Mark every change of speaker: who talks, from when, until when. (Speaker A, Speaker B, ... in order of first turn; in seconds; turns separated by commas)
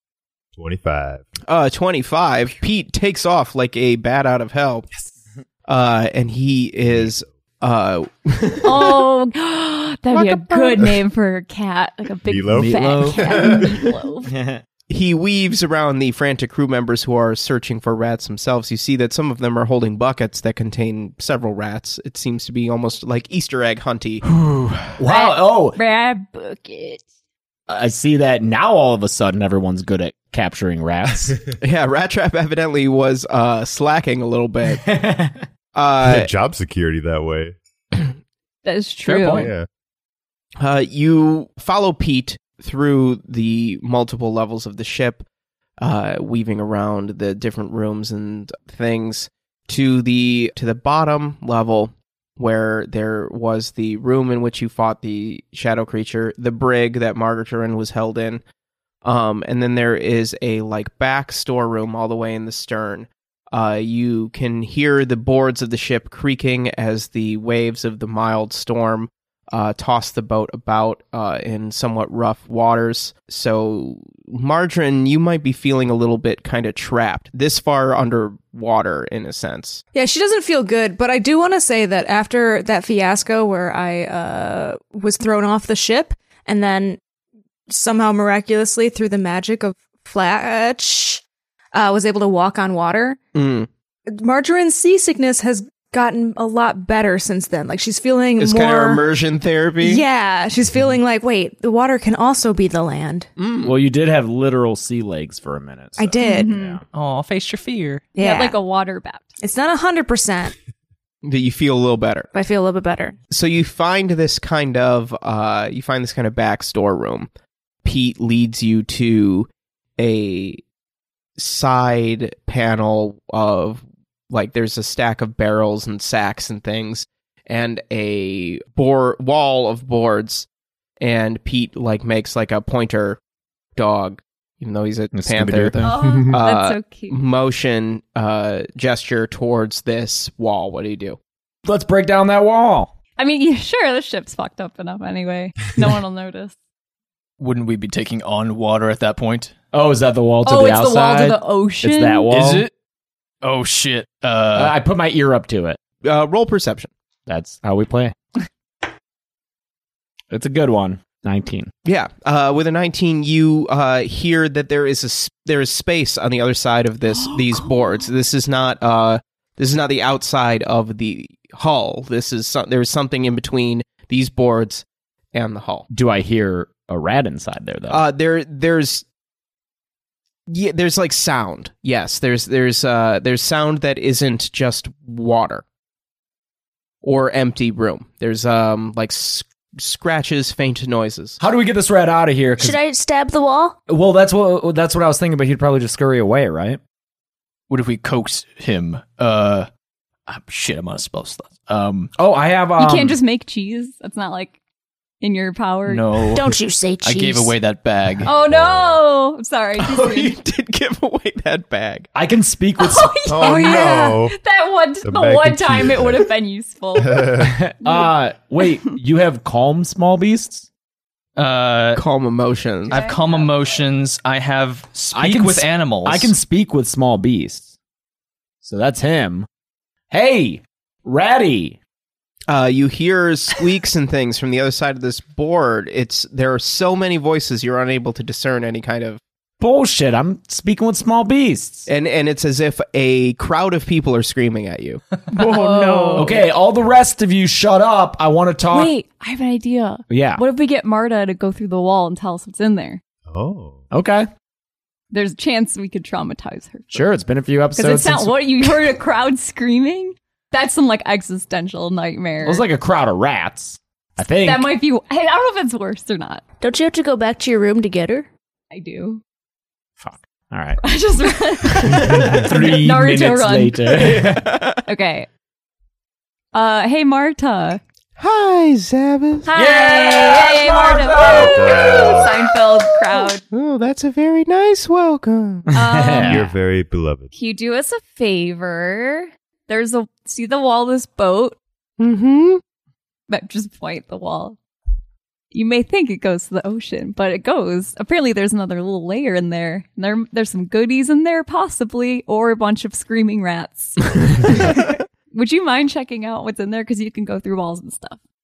Speaker A: 0.6-1.3, Speaker B: 1.4-4.9, Speaker B: 5.7-9.0, Speaker C: 8.6-14.3, Speaker B: 10.1-10.8, Speaker A: 12.3-13.6, Speaker D: 12.5-13.6, Speaker D: 14.3-14.6, Speaker B: 14.9-24.2, Speaker E: 24.2-25.0, Speaker D: 25.0-25.8, Speaker C: 25.1-27.0, Speaker D: 27.7-31.4, Speaker B: 31.6-34.8, Speaker D: 34.7-35.5, Speaker B: 35.8-36.3, Speaker A: 36.0-37.6, Speaker C: 38.6-39.5, Speaker D: 39.1-39.5, Speaker A: 39.3-39.7, Speaker B: 40.6-45.2, Speaker B: 45.8-58.4, Speaker B: 59.0-79.8, Speaker F: 79.9-87.0, Speaker F: 87.7-91.2, Speaker F: 91.7-93.2, Speaker B: 93.3-93.7, Speaker F: 94.1-99.0, Speaker B: 98.4-100.0, Speaker F: 99.8-103.3, Speaker B: 103.4-103.8, Speaker D: 103.6-106.8, Speaker F: 106.0-106.5, Speaker C: 106.2-106.8, Speaker E: 106.9-108.1, Speaker F: 108.2-108.6, Speaker C: 108.2-109.3, Speaker F: 109.4-110.5, Speaker B: 111.2-112.3, Speaker F: 112.3-113.2, Speaker B: 113.3-117.3, Speaker B: 117.8-120.6, Speaker B: 121.4-130.5, Speaker B: 131.0-133.2, Speaker B: 133.8-141.2, Speaker D: 135.1-136.3, Speaker C: 135.8-137.2, Speaker D: 141.7-142.9, Speaker C: 143.2-146.5, Speaker E: 147.4-149.6, Speaker D: 149.7-152.7, Speaker C: 150.4-152.3, Speaker E: 152.3-152.7, Speaker E: 153.4-154.8, Speaker D: 154.5-155.8, Speaker B: 156.0-156.9, Speaker D: 157.3-158.1, Speaker D: 160.3-161.7, Speaker B: 161.8-175.9, Speaker C: 167.2-168.1, Speaker D: 175.9-178.0, Speaker B: 177.9-179.1, Speaker B: 180.5-185.6, Speaker B: 187.0-191.4, Speaker D: 191.4-192.8, Speaker G: 192.6-193.8, Speaker D: 193.9-196.8, Speaker E: 197.7-199.7, Speaker E: 200.3-202.1, Speaker D: 202.2-203.2, Speaker C: 202.8-204.6, Speaker C: 205.2-206.1, Speaker E: 205.9-208.3, Speaker G: 206.3-207.6, Speaker C: 208.2-210.4, Speaker A: 208.3-209.0, Speaker B: 209.8-212.1, Speaker D: 212.1-213.2, Speaker C: 212.8-218.9, Speaker A: 213.3-214.4, Speaker A: 215.0-216.3, Speaker A: 217.0-217.6, Speaker D: 217.4-220.7, Speaker E: 221.4-222.0, Speaker B: 221.9-223.0, Speaker C: 222.9-223.6, Speaker E: 222.9-226.3, Speaker D: 225.1-227.7, Speaker D: 228.6-229.5, Speaker D: 230.1-231.8, Speaker B: 232.5-239.2, Speaker D: 239.6-241.9, Speaker B: 241.9-245.0, Speaker D: 245.3-248.9, Speaker C: 245.4-246.5, Speaker C: 248.7-253.0, Speaker D: 250.1-250.4, Speaker A: 253.3-253.8, Speaker D: 253.9-254.3, Speaker C: 255.1-257.2, Speaker D: 256.9-258.8, Speaker C: 257.7-262.6, Speaker D: 262.4-264.7, Speaker C: 264.4-266.4, Speaker G: 266.6-268.3, Speaker C: 268.7-269.2, Speaker D: 270.0-270.8, Speaker C: 270.8-274.1, Speaker D: 271.8-274.6, Speaker B: 274.1-274.8, Speaker C: 274.9-275.3, Speaker C: 276.5-277.8, Speaker B: 278.2-279.5, Speaker C: 279.5-283.4, Speaker D: 279.5-282.2, Speaker A: 281.2-282.3, Speaker B: 283.5-285.7, Speaker C: 285.7-286.5, Speaker D: 285.7-286.5, Speaker A: 286.2-287.3, Speaker C: 287.3-291.6, Speaker B: 292.0-292.6, Speaker C: 293.3-294.6, Speaker C: 295.5-308.2